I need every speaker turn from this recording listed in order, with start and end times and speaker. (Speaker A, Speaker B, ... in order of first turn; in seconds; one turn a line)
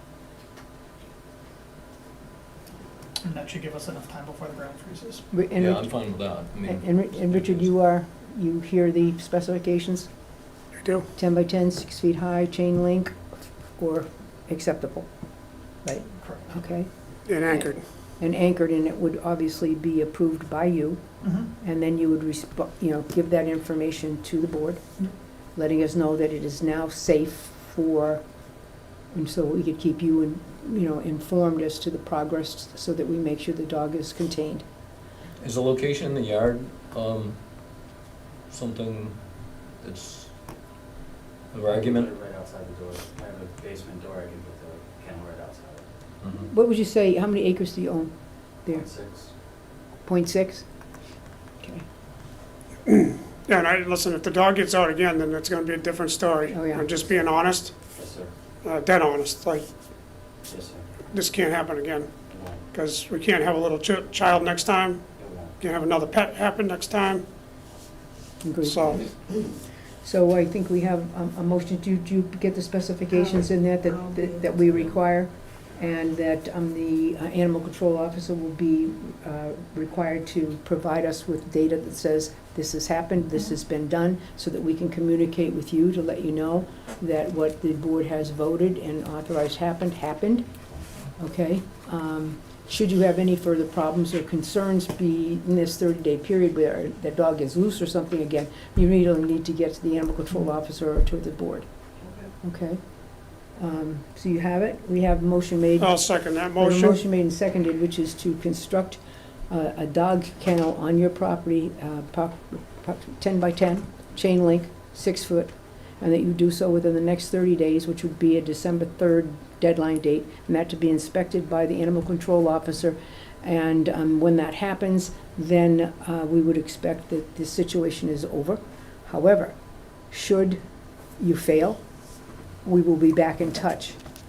Speaker A: 3.2-5.2
Speaker B: 5.3-10.1
Speaker C: 5.5-7.7
Speaker D: 10.8-11.1
Speaker B: 11.2-13.2
Speaker B: 13.8-15.1
Speaker B: 15.8-24.8
Speaker A: 16.2-16.6
Speaker D: 17.2-17.8
Speaker A: 21.2-21.5
Speaker B: 25.5-28.2
Speaker B: 29.1-34.6
Speaker C: 35.4-37.4
Speaker C: 38.5-39.2
Speaker C: 39.8-40.3
Speaker C: 41.5-42.1
Speaker E: 41.7-45.9
Speaker C: 46.2-46.5
Speaker B: 46.5-48.9
Speaker E: 48.7-49.3
Speaker B: 50.0-50.7
Speaker D: 52.9-57.8
Speaker B: 56.5-56.9
Speaker E: 57.9-58.3
Speaker D: 58.6-59.6
Speaker E: 60.5-61.0
Speaker D: 61.1-62.1
Speaker E: 62.3-62.6
Speaker D: 62.7-67.2
Speaker E: 65.2-65.5
Speaker B: 68.4-90.4
Speaker D: 68.6-69.0
Speaker B: 91.2-101.7
Speaker B: 102.4-102.8
Speaker B: 103.5-130.6
Speaker D: 105.8-107.0
Speaker B: 131.2-131.8
Speaker B: 132.6-134.0